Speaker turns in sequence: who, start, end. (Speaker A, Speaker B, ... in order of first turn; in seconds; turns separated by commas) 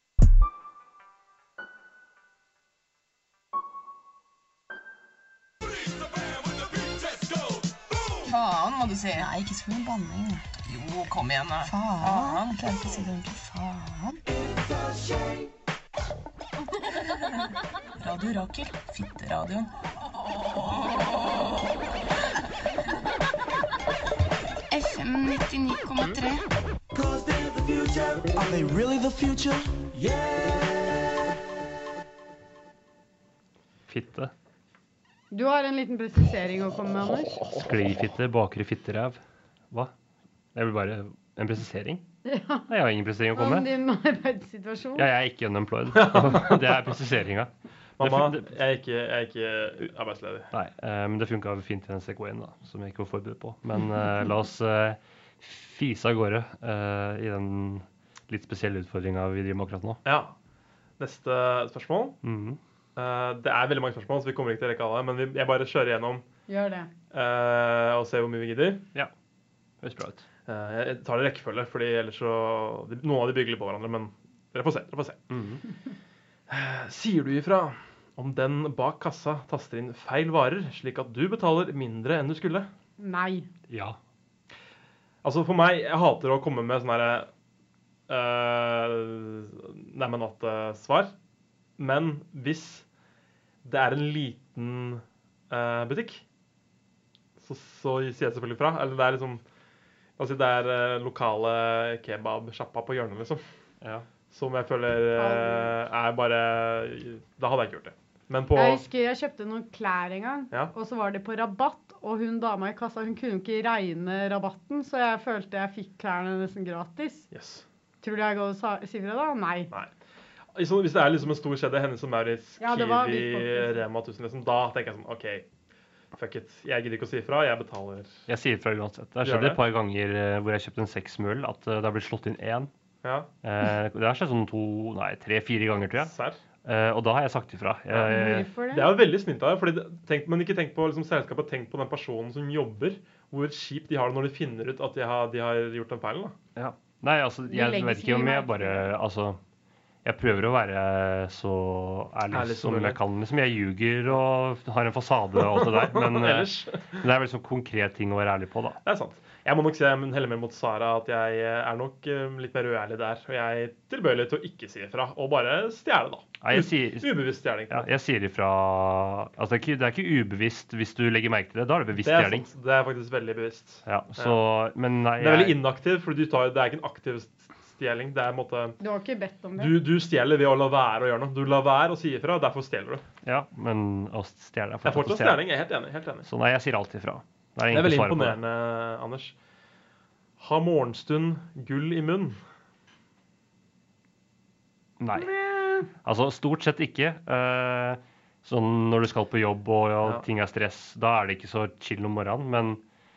Speaker A: 8.2-14.2, Speaker B: 14.6-15.4, Speaker A: 18.0-19.7, Speaker A: 24.7-26.4, Speaker B: 26.9-31.0, Speaker C: 33.9-34.3, Speaker D: 35.3-37.4, Speaker C: 37.5-39.2, Speaker C: 40.5-42.0, Speaker D: 42.2-42.7, Speaker C: 42.7-43.7, Speaker D: 43.3-45.0, Speaker C: 45.0-48.5, Speaker E: 45.9-46.9, Speaker E: 48.0-50.5, Speaker C: 50.5-60.0, Speaker E: 60.0-60.4, Speaker E: 61.0-62.2, Speaker C: 62.2-62.6, Speaker E: 63.0-66.2, Speaker D: 66.5-66.9, Speaker E: 67.1-68.8, Speaker C: 69.8-70.2, Speaker E: 70.5-75.2, Speaker C: 75.3-75.6, Speaker E: 76.5-82.7, Speaker D: 83.0-83.5, Speaker C: 83.7-84.0, Speaker E: 85.2-87.3, Speaker E: 88.1-91.1, Speaker E: 91.8-92.8, Speaker E: 93.6-96.2, Speaker E: 97.4-99.4, Speaker E: 100.2-103.4, Speaker C: 103.8-104.1, Speaker E: 104.3-108.8, Speaker D: 105.2-105.7, Speaker D: 108.5-117.3, Speaker E: 117.3-117.6, Speaker D: 118.0-119.7, Speaker E: 120.5-125.5, Speaker D: 122.6-123.8, Speaker E: 126.1-128.2, Speaker C: 128.3-132.7, Speaker E: 129.2-129.6, Speaker E: 133.0-133.3, Speaker C: 133.4-136.1, Speaker E: 136.0-136.4, Speaker C: 136.6-138.5, Speaker E: 137.9-138.2, Speaker D: 138.0-138.9, Speaker E: 138.7-146.3, Speaker C: 146.6-149.4, Speaker D: 147.5-148.9, Speaker C: 150.0-158.8, Speaker E: 152.3-153.0, Speaker E: 155.4-157.0, Speaker E: 158.8-167.9, Speaker C: 166.4-172.5, Speaker E: 172.0-174.4, Speaker C: 173.8-175.6, Speaker E: 175.2-178.8, Speaker D: 178.8-179.8, Speaker E: 179.6-183.1, Speaker C: 183.2-185.4, Speaker E: 184.8-186.3, Speaker C: 186.2-188.4, Speaker E: 187.7-189.3, Speaker E: 190.4-192.4, Speaker C: 195.0-195.3, Speaker D: 195.2-195.9, Speaker C: 195.9-202.8